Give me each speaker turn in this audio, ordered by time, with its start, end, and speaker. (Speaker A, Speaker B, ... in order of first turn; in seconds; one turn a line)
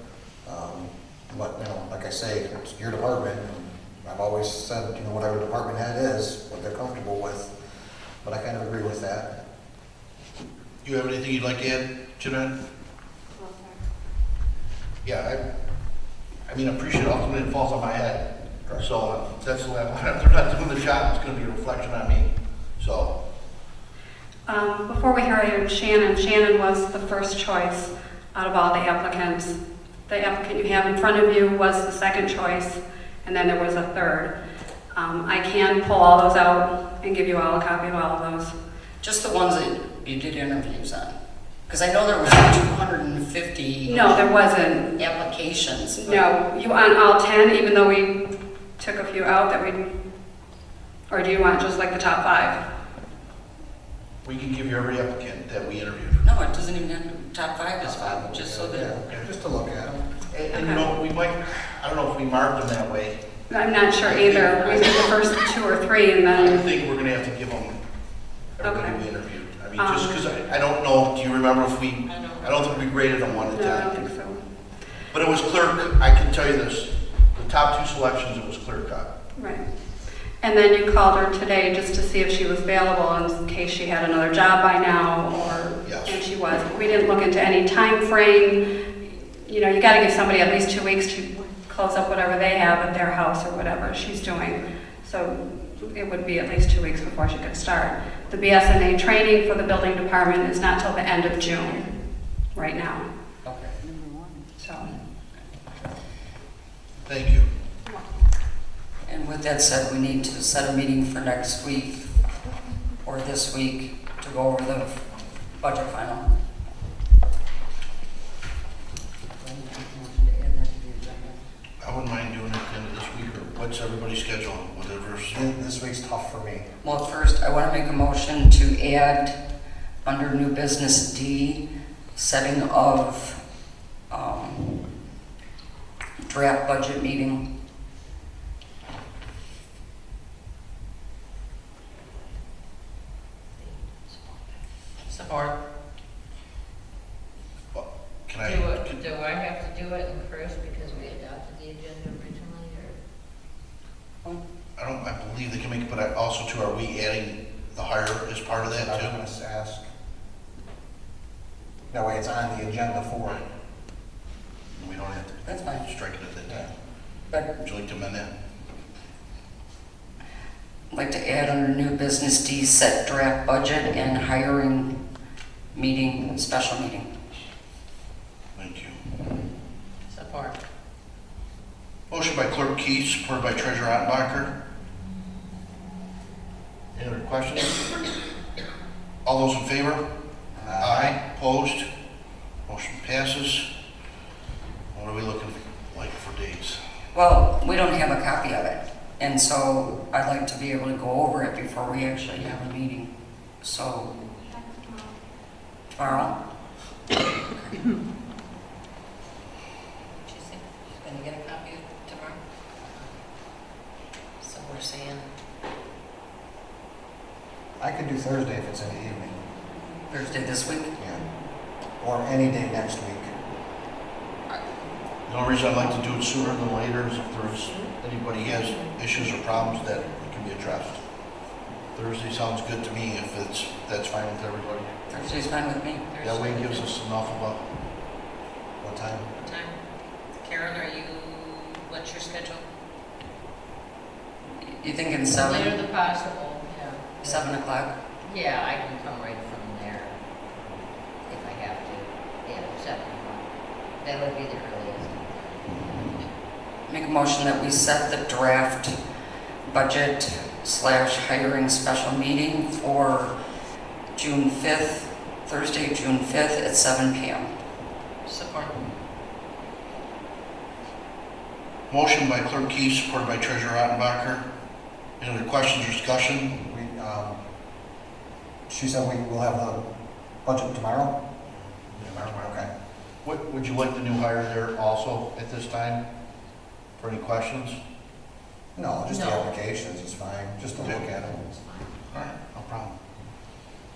Speaker A: 0.5-7.5
Speaker A: 8.2-9.4
Speaker B: 10.8-12.6
Speaker B: 15.0-15.4
Speaker B: 16.5-23.2
Speaker C: 24.5-34.3
Speaker C: 35.0-38.5
Speaker D: 39.0-41.2
Speaker D: 41.7-44.2
Speaker C: 43.9-44.9
Speaker D: 45.0-46.2
Speaker C: 46.1-48.2
Speaker C: 48.8-49.8
Speaker C: 51.1-52.6
Speaker B: 54.2-56.2
Speaker D: 56.2-59.0
Speaker A: 57.8-60.0
Speaker B: 60.3-63.2
Speaker C: 60.5-60.8
Speaker C: 63.5-66.6
Speaker B: 64.1-65.0
Speaker B: 66.3-67.8
Speaker B: 68.6-74.0
Speaker C: 68.6-69.0
Speaker C: 69.8-70.2
Speaker E: 72.1-72.9
Speaker C: 73.5-74.4
Speaker B: 75.1-79.1
Speaker C: 79.4-79.6
Speaker C: 80.4-88.6
Speaker B: 85.8-86.2
Speaker C: 89.3-101.8
Speaker C: 102.5-103.0
Speaker D: 103.5-103.8
Speaker C: 104.6-104.9
Speaker B: 107.0-107.5
Speaker D: 109.0-112.1
Speaker D: 113.0-115.0
Speaker D: 115.6-116.3
Speaker B: 121.8-125.4
Speaker A: 125.3-126.7
Speaker D: 126.8-129.4
Speaker D: 130.0-131.6
Speaker D: 132.2-133.4
Speaker D: 134.1-134.9
Speaker D: 136.2-137.4
Speaker E: 145.1-145.5
Speaker B: 147.7-149.0
Speaker E: 148.4-148.9
Speaker E: 150.2-152.9
Speaker B: 154.8-159.2
Speaker A: 158.5-159.9
Speaker A: 161.9-163.4
Speaker B: 164.7-166.7
Speaker D: 165.4-165.9
Speaker D: 167.3-167.6
Speaker B: 167.6-168.3
Speaker D: 170.9-175.0
Speaker D: 175.7-177.1
Speaker B: 178.6-179.1
Speaker E: 180.1-180.6
Speaker B: 182.1-184.5
Speaker B: 186.9-188.1
Speaker B: 189.2-190.1
Speaker A: 190.6-191.1
Speaker B: 190.8-191.9
Speaker B: 192.7-193.7
Speaker B: 194.9-196.8
Speaker D: 197.1-203.1
Speaker D: 203.6-204.2
Speaker D: 205.9-206.4
Speaker E: 210.2-213.2
Speaker E: 214.4-215.3
Speaker A: 217.8-219.4
Speaker D: 220.1-220.9
Speaker A: 221.0-221.2
Speaker A: 222.0-223.3
Speaker B: 225.3-231.0
Speaker B: 231.9-234.9
Speaker D: 235.1-236.1
Speaker E: 236.1-236.9
Speaker B: 236.2-237.7
Speaker A: 238.8-239.3
Speaker E: 239.3-239.8
Speaker E: 240.4-242.6
Speaker D: 244.6-245.8
Speaker E: 245.3-247.4
Speaker D: 247.2-247.9
Speaker E: 248.4-250.1
Speaker E: 251.3-251.9
Speaker E: 254.3-255.5
Speaker D: 256.9-259.0
Speaker D: 259.7-263.4
Speaker D: 264.2-267.5
Speaker E: 268.3-268.8
Speaker B: 271.9-274.4
Speaker B: 275.2-276.7
Speaker A: 276.6-277.4
Speaker A: 278.7-279.8
Speaker A: 280.4-281.2
Speaker B: 281.5-282.7
Speaker A: 282.4-282.7
Speaker B: 283.2-286.0
Speaker B: 287.0-287.8
Speaker A: 288.8-291.5
Speaker E: 289.1-289.4
Speaker B: 292.1-293.0